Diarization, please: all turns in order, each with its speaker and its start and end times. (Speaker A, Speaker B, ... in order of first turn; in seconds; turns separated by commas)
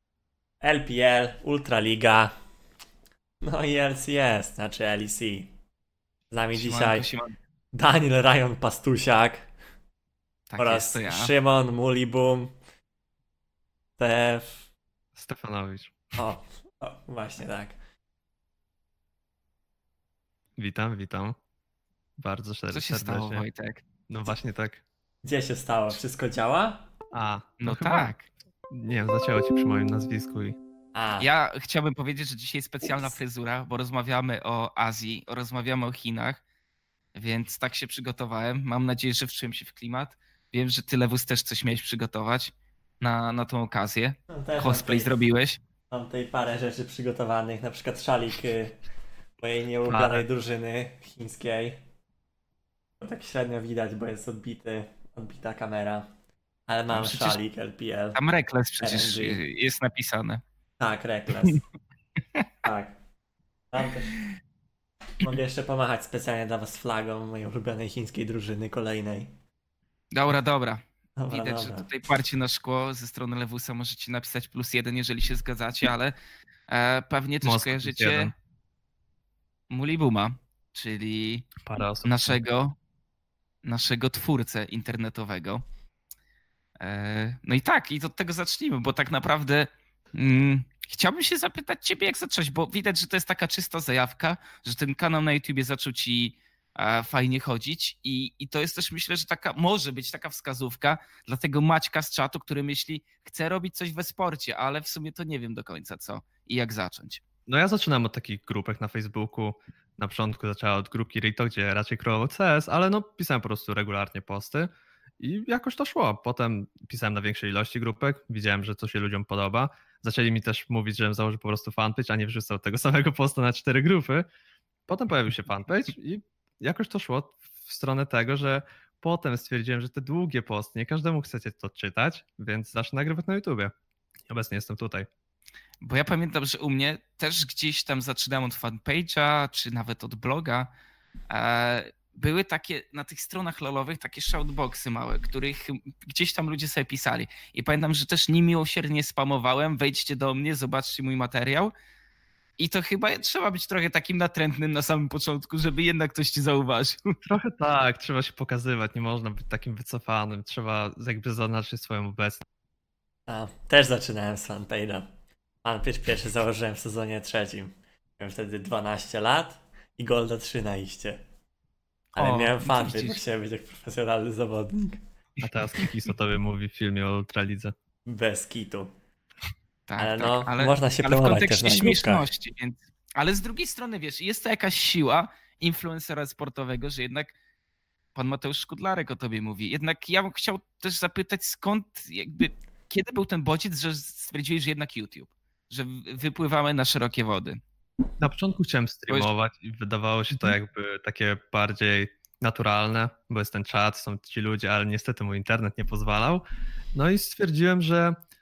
Speaker A: 0.6-2.3, Speaker A: 3.4-5.5, Speaker A: 6.3-7.1, Speaker B: 6.5-7.4, Speaker A: 7.7-9.5, Speaker B: 10.5-11.3, Speaker A: 10.6-12.6, Speaker A: 14.0-14.6, Speaker C: 15.2-16.1, Speaker A: 16.2-17.8, Speaker C: 20.6-21.4, Speaker C: 22.2-23.4, Speaker B: 22.7-23.8, Speaker C: 24.1-24.8, Speaker A: 25.2-26.9, Speaker C: 27.1-28.1, Speaker B: 27.6-28.2, Speaker C: 28.7-30.6, Speaker A: 30.9-31.3, Speaker B: 31.2-36.4, Speaker B: 37.1-45.6, Speaker A: 44.3-45.1, Speaker A: 45.9-48.8, Speaker A: 49.4-51.8, Speaker C: 49.9-50.2, Speaker A: 53.0-56.1, Speaker A: 56.7-58.2, Speaker B: 57.0-57.4, Speaker B: 58.1-60.4, Speaker A: 58.8-59.4, Speaker A: 60.8-61.6, Speaker A: 62.6-62.9, Speaker A: 63.7-64.1, Speaker A: 65.2-69.3, Speaker B: 70.1-76.2, Speaker A: 71.2-71.9, Speaker B: 76.7-78.3, Speaker C: 77.4-78.3, Speaker B: 79.7-82.8, Speaker C: 81.6-82.4, Speaker B: 83.6-85.6, Speaker B: 86.8-107.2, Speaker C: 107.5-124.3, Speaker C: 124.9-133.7, Speaker C: 134.3-135.1, Speaker B: 135.8-140.7, Speaker B: 141.3-151.7, Speaker B: 152.6-157.2, Speaker C: 157.2-162.4, Speaker A: 163.3-165.1, Speaker A: 165.6-171.2, Speaker A: 172.2-175.0, Speaker B: 172.2-173.2, Speaker C: 175.4-177.7, Speaker A: 178.1-178.9, Speaker B: 179.9-187.3, Speaker A: 180.0-182.3, Speaker B: 188.2-197.6, Speaker C: 198.2-206.4, Speaker C: 206.9-208.2